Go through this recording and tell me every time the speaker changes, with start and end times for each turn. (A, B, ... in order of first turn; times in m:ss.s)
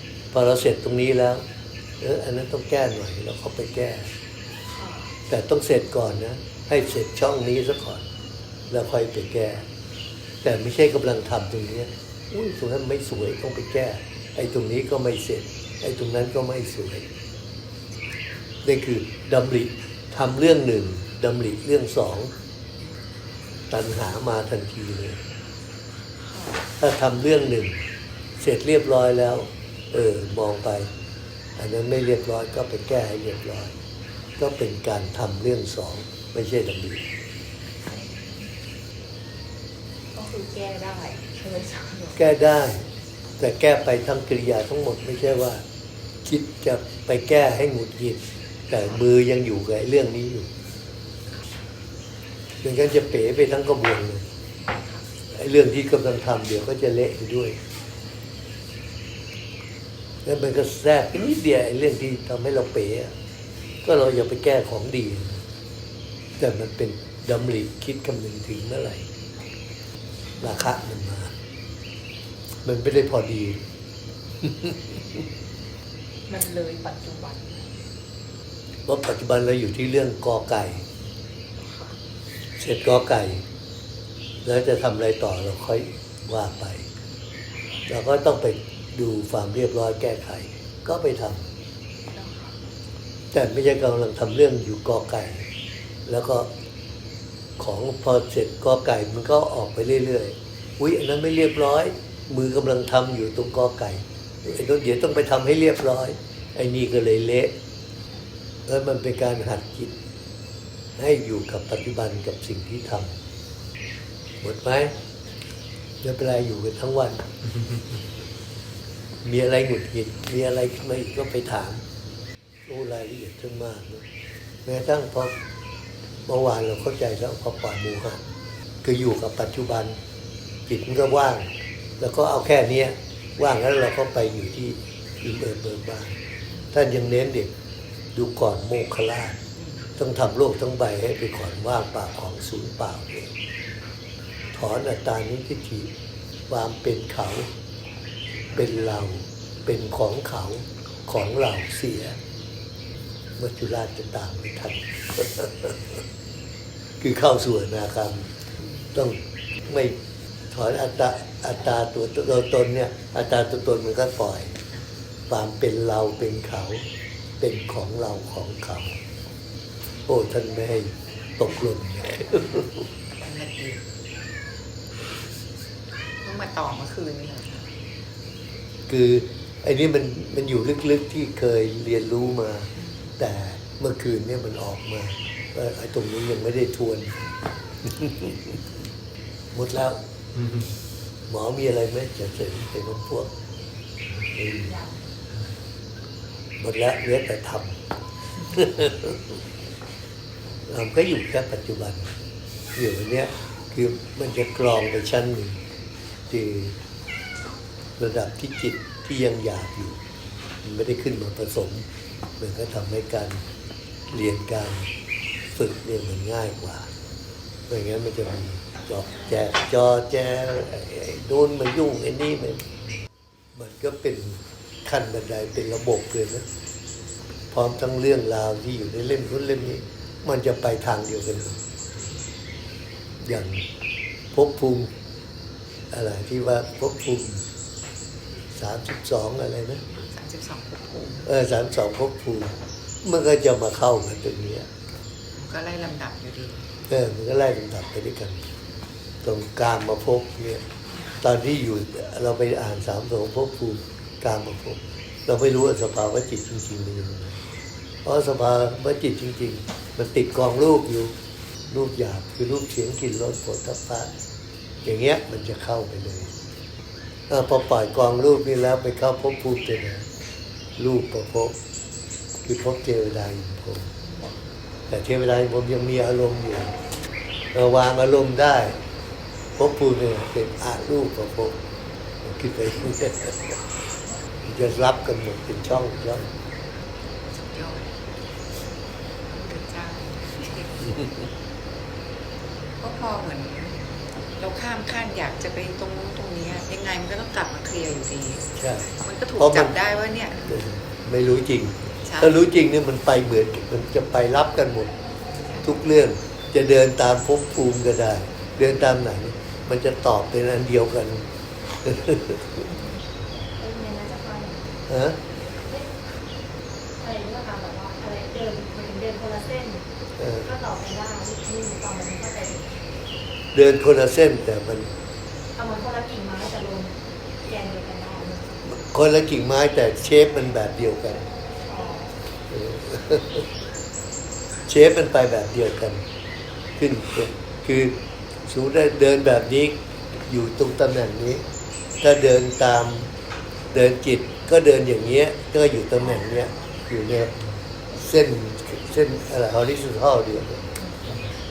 0:00.3-0:01.4 A
0:02.0-0:04.1 A
0:04.7-0:05.1 B
0:05.3-0:08.0 A
0:08.7-0:09.7 A
0:10.4-0:17.1 A
0:18.6-0:22.3 A
0:23.7-0:25.2 A
0:26.2-0:26.6 B
0:26.8-0:27.8 A
0:28.4-0:30.9 A
0:31.6-0:33.8 A
0:34.4-0:37.0 A
0:37.8-0:38.5 B
0:40.1-0:42.2 B
0:42.1-0:45.6 A
0:46.2-0:50.5 A
0:52.6-0:54.2 A
0:54.6-0:55.1 B
0:55.3-0:57.6 A
1:00.2-1:03.1 A
1:03.8-1:05.4 A
1:06.4-1:09.1 A
1:10.4-1:11.3 A
1:12.6-1:13.6 A
1:16.3-1:17.7 B
1:18.8-1:20.8 A
1:21.6-1:22.0 B
1:22.6-1:23.4 A
1:24.4-1:26.9 A
1:27.9-1:31.4 A
1:32.1-1:32.6 B
1:33.3-1:35.5 A
1:36.0-1:36.5 A
1:37.6-1:47.5 A
1:48.6-1:49.9 A
1:51.0-1:53.1 A
1:54.4-1:55.0 A
1:56.0-1:57.3 A
1:59.2-2:01.8 A
2:02.7-2:04.0 A
2:04.6-2:05.3 A
2:06.2-2:08.2 A
2:08.8-2:10.0 A
2:10.7-2:16.2 A
2:16.7-2:17.5 A
2:18.1-2:19.4 A
2:20.0-2:23.3 A
2:24.5-2:25.9 A
2:26.5-2:27.5 A
2:28.5-2:32.2 A
2:33.4-2:36.0 A
2:37.0-2:38.3 A
2:38.9-2:40.0 A
2:40.5-2:44.6 A
2:45.3-2:46.8 A
2:47.4-2:49.0 A
2:50.0-2:52.9 A
2:53.2-2:53.8 C
2:56.2-2:57.7 C
2:58.9-3:08.6 A
3:09.5-3:10.0 A
3:11.3-3:13.3 A
3:14.3-3:14.7 A
3:16.6-3:17.8 A
3:18.5-3:19.4 A
3:20.7-3:22.1 A
3:22.7-3:25.6 A
3:26.3-3:26.8 A
3:28.0-3:30.0 A
3:30.6-3:31.9 A
3:32.4-3:33.4 A
3:34.1-3:34.9 A
3:35.5-3:36.9 A
3:37.7-3:42.7 A
3:43.5-3:46.4 A
3:47.5-3:51.6 A
3:53.2-3:53.6 A
3:54.3-3:54.9 A
3:55.9-3:57.4 A
3:58.5-3:59.8 A
3:59.8-4:01.3 C
4:01.2-4:04.7 A
4:05.3-4:06.7 C
4:06.9-4:08.4 A
4:09.2-4:10.6 A
4:11.2-4:17.4 A
4:18.0-4:21.1 A
4:21.7-4:24.1 A
4:24.8-4:26.4 A
4:27.3-4:30.1 A
4:30.8-4:31.6 A
4:32.4-4:33.9 A
4:34.9-4:36.8 A
4:37.5-4:38.8 A
4:39.6-4:41.6 A
4:42.2-4:43.6 A
4:44.4-4:46.3 A
4:47.3-4:47.9 C
4:49.3-4:51.0 C
4:52.8-4:58.4 C
4:58.6-4:59.7 A
4:59.0-5:00.5 C
5:00.5-5:04.9 A
5:02.0-5:02.4 C
5:05.6-5:11.3 A
5:11.8-5:12.7 A
5:13.6-5:14.6 D
5:14.9-5:15.2 A
5:17.0-5:19.8 D
5:20.2-5:20.5 A
5:20.4-5:22.8 D
5:23.5-5:24.9 A
5:25.6-5:28.4 D
5:28.6-5:31.3 A
5:31.7-5:32.1 D
5:32.5-5:33.5 A
5:34.7-5:36.0 A
5:36.8-5:41.4 A
5:42.0-5:43.1 A
5:43.7-5:50.8 A